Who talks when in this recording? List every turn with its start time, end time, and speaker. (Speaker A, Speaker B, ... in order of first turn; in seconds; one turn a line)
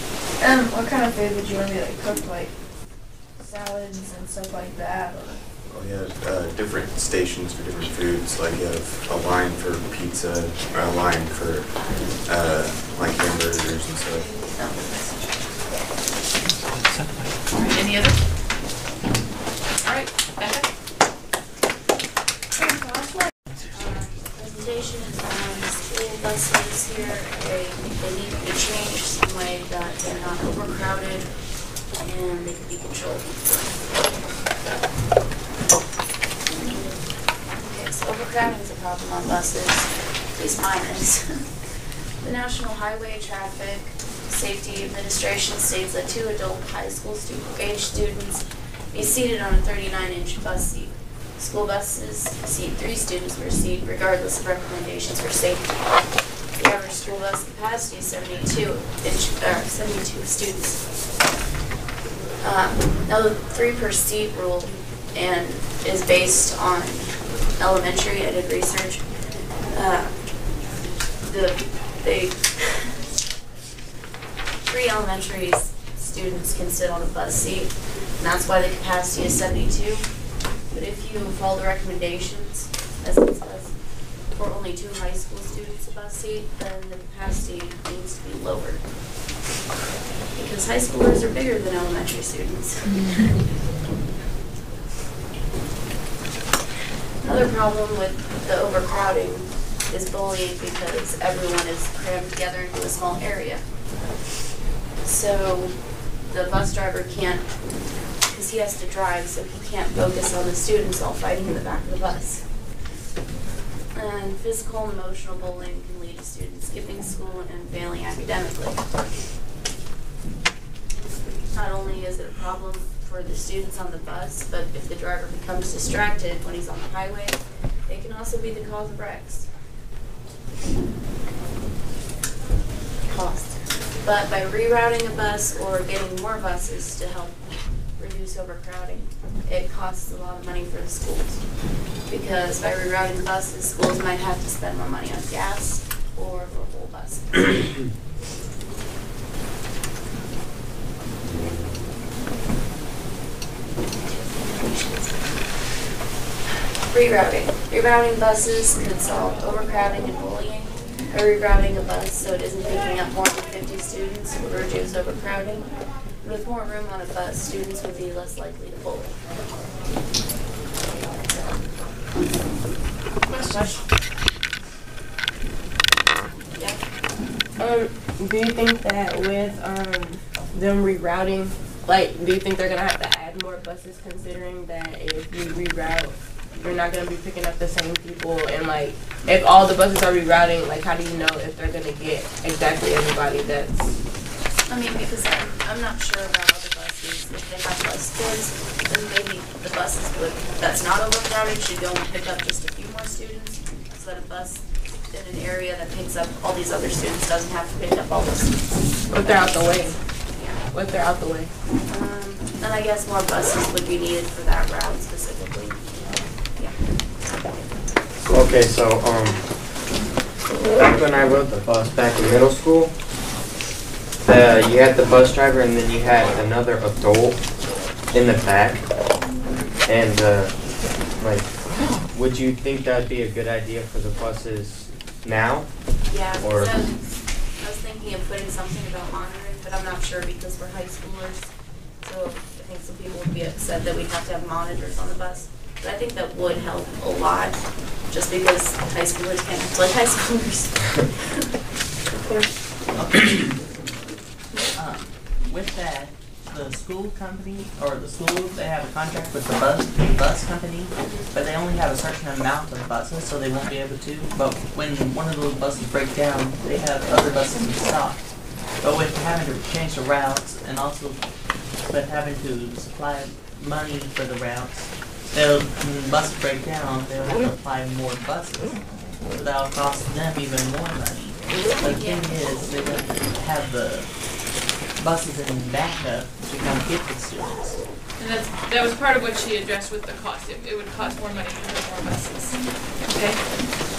Speaker A: 0.4-2.6
Speaker A: 3.4-5.4
Speaker B: 5.7-14.3
Speaker A: 14.5-15.2
Speaker C: 17.5-18.4
Speaker C: 19.8-20.7
Speaker D: 23.7-31.3
Speaker D: 32.0-34.0
Speaker D: 36.6-36.9
Speaker D: 37.5-41.4
Speaker D: 42.2-56.0
Speaker D: 56.6-60.8
Speaker D: 62.4-69.1
Speaker D: 69.7-70.3
Speaker D: 71.2-72.8
Speaker D: 74.7-80.1
Speaker D: 80.7-88.8
Speaker D: 90.3-93.4
Speaker D: 97.2-103.7
Speaker D: 105.0-112.7
Speaker D: 113.9-119.0
Speaker D: 121.5-129.5
Speaker D: 133.1-147.6
Speaker D: 154.0-155.3
Speaker D: 156.9-169.2
Speaker D: 170.8-171.6
Speaker C: 173.3-173.9
Speaker E: 177.6-194.0
Speaker D: 194.7-209.6
Speaker E: 209.1-210.0
Speaker E: 210.7-211.5
Speaker D: 211.9-216.8
Speaker F: 218.3-219.5
Speaker F: 220.7-222.9
Speaker F: 224.2-227.4
Speaker F: 228.1-228.9
Speaker F: 229.9-230.6
Speaker F: 231.1-235.8
Speaker D: 236.0-241.5
Speaker F: 236.4-236.8
Speaker D: 242.0-250.7
Speaker G: 252.9-253.7
Speaker G: 254.7-287.8
Speaker C: 288.2-293.4